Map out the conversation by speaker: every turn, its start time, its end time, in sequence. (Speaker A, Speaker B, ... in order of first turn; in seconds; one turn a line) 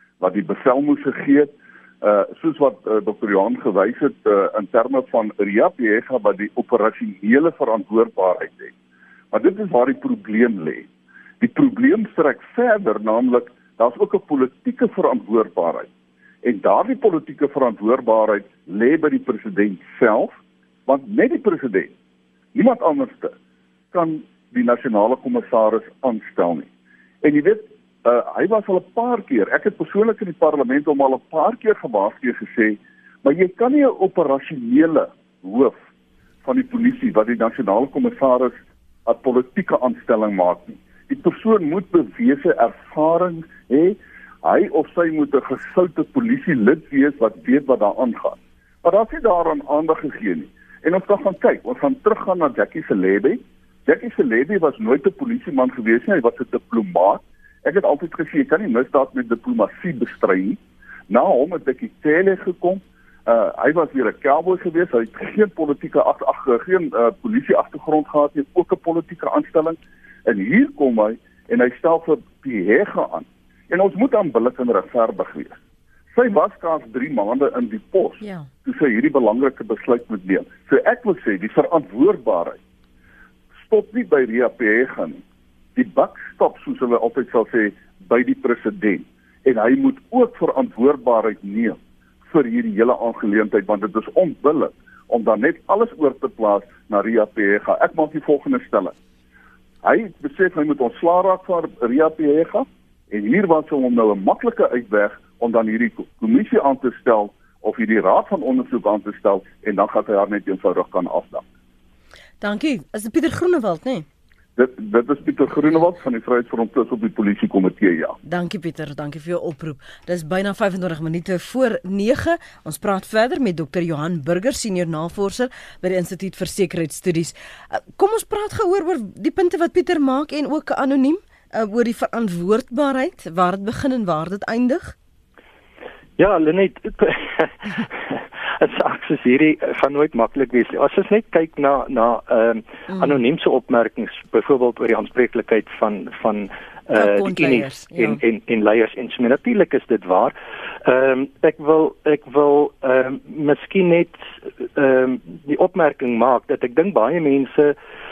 Speaker A: 0.2-8.7
Speaker A: 9.3-10.9
Speaker A: 11.4-15.9
Speaker A: 16.4-21.9
Speaker A: 22.5-23.3
Speaker A: 23.9-26.7
Speaker A: 27.2-35.8
Speaker A: 36.5-75.6
Speaker A: 76.1-82.6
Speaker B: 78.2-78.5
Speaker A: 83.6-85.2
Speaker A: 85.8-99.0
Speaker A: 99.8-111.4
Speaker B: 112.4-114.1
Speaker A: 114.6-118.2
Speaker B: 118.2-135.0
Speaker C: 136.2-150.3
Speaker B: 147.0-148.2
Speaker C: 150.8-157.8